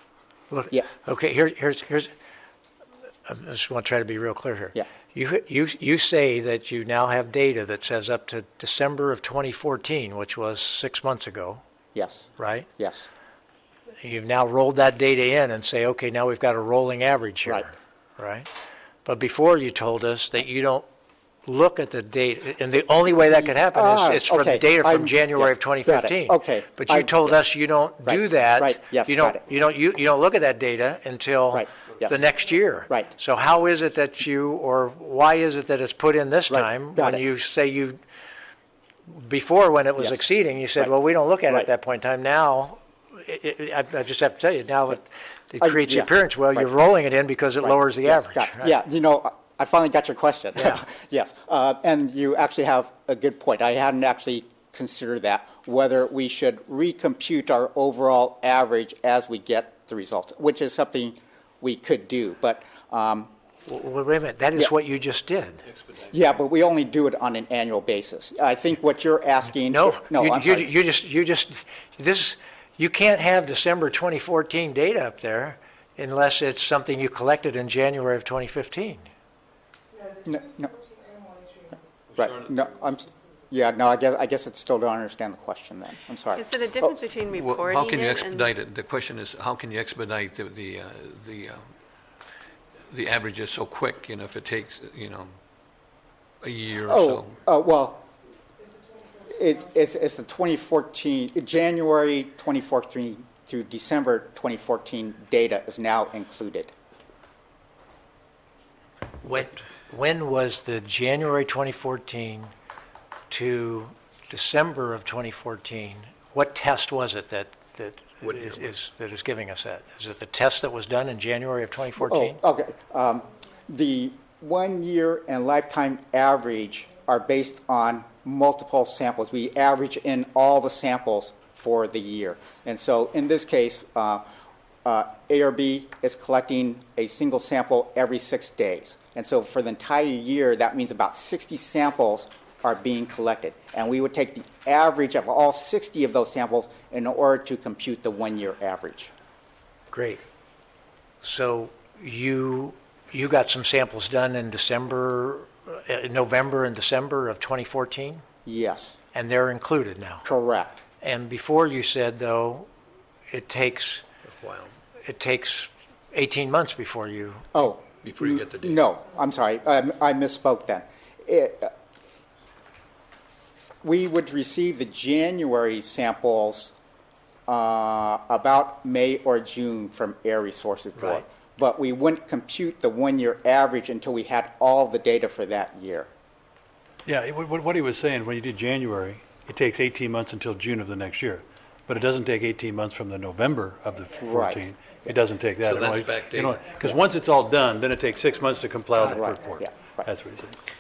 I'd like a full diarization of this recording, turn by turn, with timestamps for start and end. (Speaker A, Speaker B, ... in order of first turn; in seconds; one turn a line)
Speaker A: 0.5-2.1
Speaker A: 3.3-11.6
Speaker B: 11.9-13.1
Speaker A: 12.4-12.7
Speaker A: 14.0-18.5
Speaker A: 19.1-20.9
Speaker A: 21.4-38.0
Speaker B: 23.2-27.4
Speaker B: 28.1-29.4
Speaker B: 31.5-32.2
Speaker B: 36.5-37.2
Speaker A: 39.1-48.7
Speaker B: 45.6-46.7
Speaker B: 47.6-63.3
Speaker A: 63.6-65.7
Speaker B: 66.1-70.7
Speaker A: 69.7-79.1
Speaker B: 80.2-80.7
Speaker B: 82.2-87.0
Speaker C: 82.2-82.5
Speaker D: 86.3-88.5
Speaker C: 87.3-91.6
Speaker C: 92.9-95.3
Speaker C: 96.4-97.3
Speaker B: 96.8-98.1
Speaker B: 99.3-106.7
Speaker A: 109.2-112.5
Speaker A: 113.3-122.4
Speaker C: 118.2-118.6
Speaker B: 122.0-134.3
Speaker B: 134.8-149.1
Speaker A: 149.9-150.2
Speaker A: 151.2-158.2
Speaker B: 158.5-159.0
Speaker A: 159.1-160.3
Speaker B: 160.2-160.8
Speaker A: 161.0-162.7
Speaker A: 163.3-164.1
Speaker C: 164.3-164.7
Speaker A: 165.0-167.5
Speaker B: 167.5-171.7
Speaker C: 168.0-168.8
Speaker B: 173.8-176.8
Speaker B: 177.5-186.1
Speaker A: 181.0-181.2
Speaker E: 187.1-200.6
Speaker B: 194.2-194.7
Speaker C: 195.6-196.6
Speaker B: 199.0-200.1